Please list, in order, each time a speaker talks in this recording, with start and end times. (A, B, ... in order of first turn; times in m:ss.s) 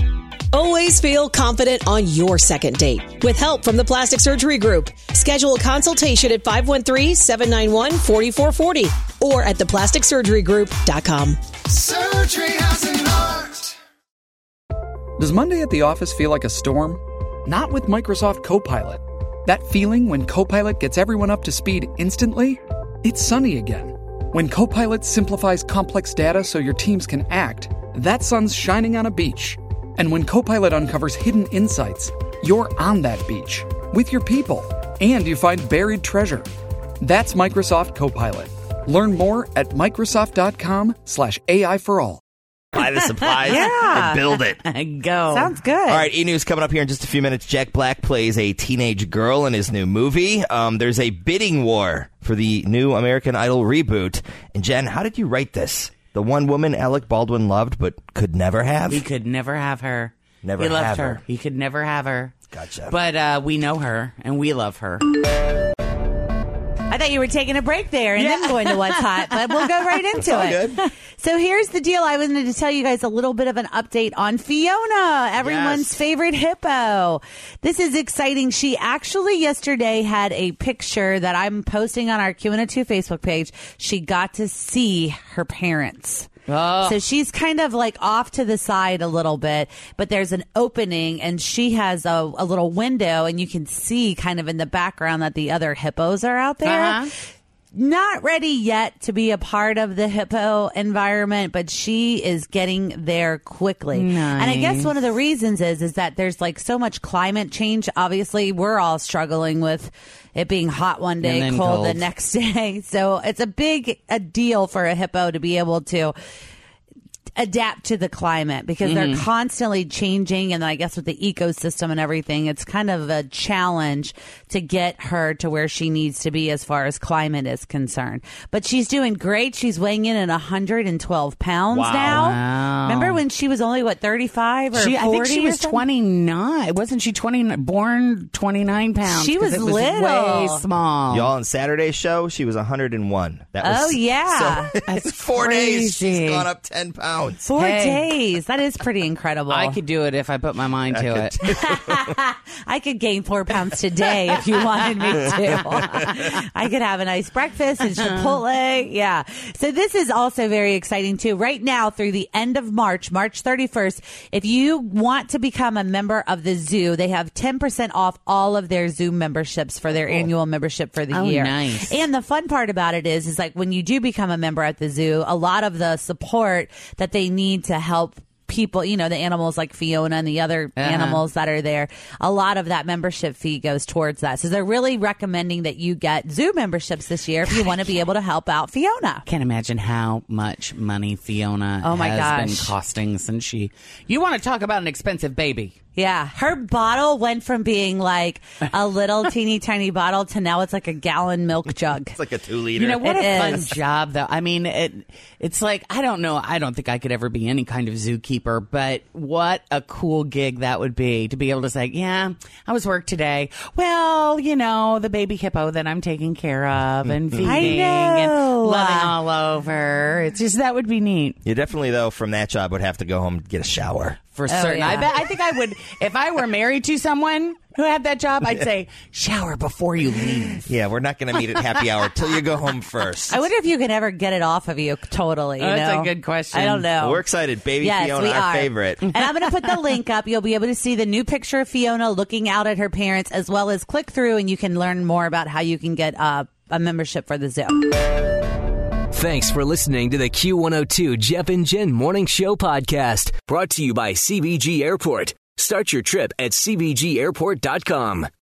0:00.5-0:11.4 A
0:11.7-0:13.7 B
0:15.2-0:36.5 B
0:37.0-0:42.2 B
0:42.7-0:44.6 C
0:42.8-0:45.5 D
0:43.4-0:44.2 E
0:45.3-0:46.1 E
0:45.9-0:59.0 C
0:58.9-1:02.3 D
1:00.4-1:01.2 C
1:02.5-1:02.9 C
1:02.9-1:05.1 D
1:06.9-1:26.3 E
1:08.2-1:10.2 D
1:10.2-1:10.8 C
1:15.4-1:16.0 C
1:26.5-1:27.0 D
1:26.8-1:37.0 E
1:36.6-1:37.1 D
1:37.7-1:56.1 E
1:43.9-1:44.9 D
1:51.2-1:52.0 D
1:57.4-2:15.8 E
1:58.8-1:59.2 D
2:11.7-2:12.2 C
2:12.0-2:13.2 D
2:14.7-2:21.3 D
2:19.0-2:20.6 E
2:21.1-2:27.5 C
2:23.6-2:24.7 E
2:24.9-2:26.5 D
2:27.4-2:29.8 E
2:27.6-2:28.1 D
2:29.5-2:31.4 D
2:30.9-2:31.9 C
2:31.4-3:09.2 E
2:35.1-2:36.2 D
2:51.1-2:51.9 D
3:00.8-3:01.2 D
3:07.5-3:07.9 D
3:09.2-3:15.8 D
3:11.8-3:12.7 E
3:15.9-3:22.2 E
3:22.1-3:23.6 C
3:22.7-3:41.4 D
3:23.0-3:23.7 E
3:37.4-3:39.1 E
3:41.4-3:44.2 C
3:44.3-3:50.7 D
3:44.5-3:45.1 E
3:50.6-3:53.4 C
3:53.3-3:57.2 E
3:55.6-3:56.9 D
3:57.0-3:59.1 C
3:57.8-4:07.9 E
4:09.1-4:18.3 F